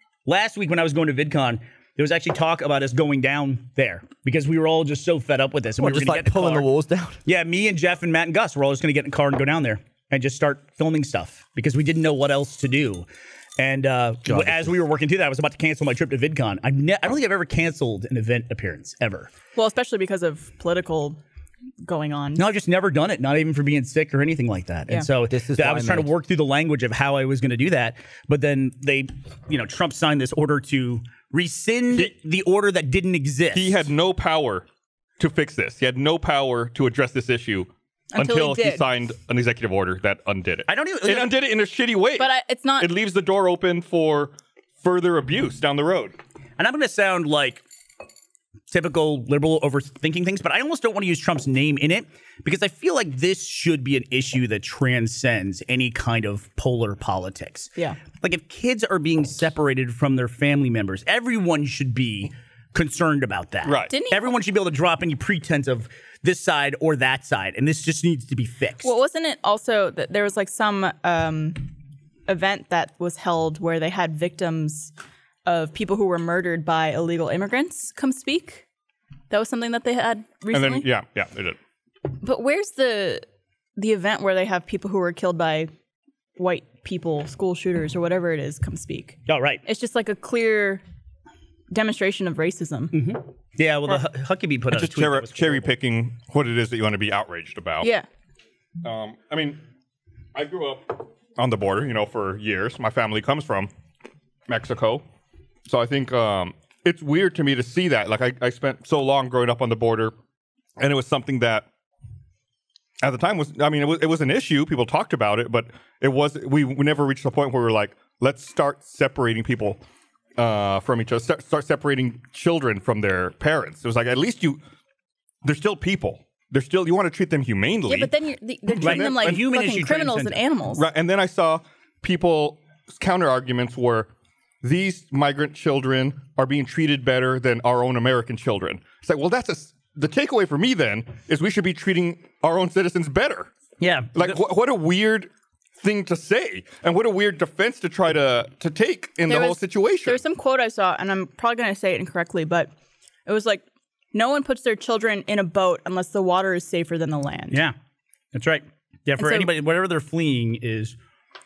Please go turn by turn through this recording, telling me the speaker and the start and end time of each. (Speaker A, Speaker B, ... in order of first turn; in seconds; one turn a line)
Speaker A: 0.2-6.7
Speaker B: 5.8-7.2
Speaker A: 7.2-13.1
Speaker A: 13.6-19.3
Speaker B: 14.2-14.8
Speaker C: 19.5-21.2
Speaker C: 21.8-22.4
Speaker A: 22.4-33.9
Speaker B: 25.3-26.1
Speaker D: 33.5-34.6
Speaker D: 35.2-42.3
Speaker C: 38.1-38.8
Speaker A: 40.7-41.3
Speaker C: 42.2-42.9
Speaker D: 42.8-46.2
Speaker A: 46.6-47.6
Speaker A: 48.7-68.9
Speaker D: 63.6-63.9
Speaker C: 63.9-64.3
Speaker C: 68.8-71.7
Speaker C: 72.3-74.9
Speaker C: 75.5-78.6
Speaker C: 79.3-80.8
Speaker D: 80.5-81.6
Speaker C: 82.2-83.2
Speaker C: 83.8-85.7
Speaker C: 86.4-90.8
Speaker A: 89.3-89.6
Speaker C: 91.7-92.9
Speaker A: 92.9-95.7
Speaker D: 94.7-97.9
Speaker D: 98.8-99.6
Speaker D: 100.3-103.7
Speaker D: 104.5-105.0
Speaker D: 105.7-110.1
Speaker D: 110.8-111.7
Speaker D: 113.0-119.8
Speaker D: 120.4-124.6
Speaker D: 125.4-128.1
Speaker C: 127.9-130.8
Speaker A: 128.7-130.4
Speaker D: 128.8-129.4
Speaker D: 130.7-134.1
Speaker D: 134.6-143.5
Speaker A: 143.8-144.4
Speaker D: 144.1-150.2
Speaker C: 149.2-152.7
Speaker C: 153.2-157.6
Speaker A: 158.3-161.0
Speaker C: 159.2-159.5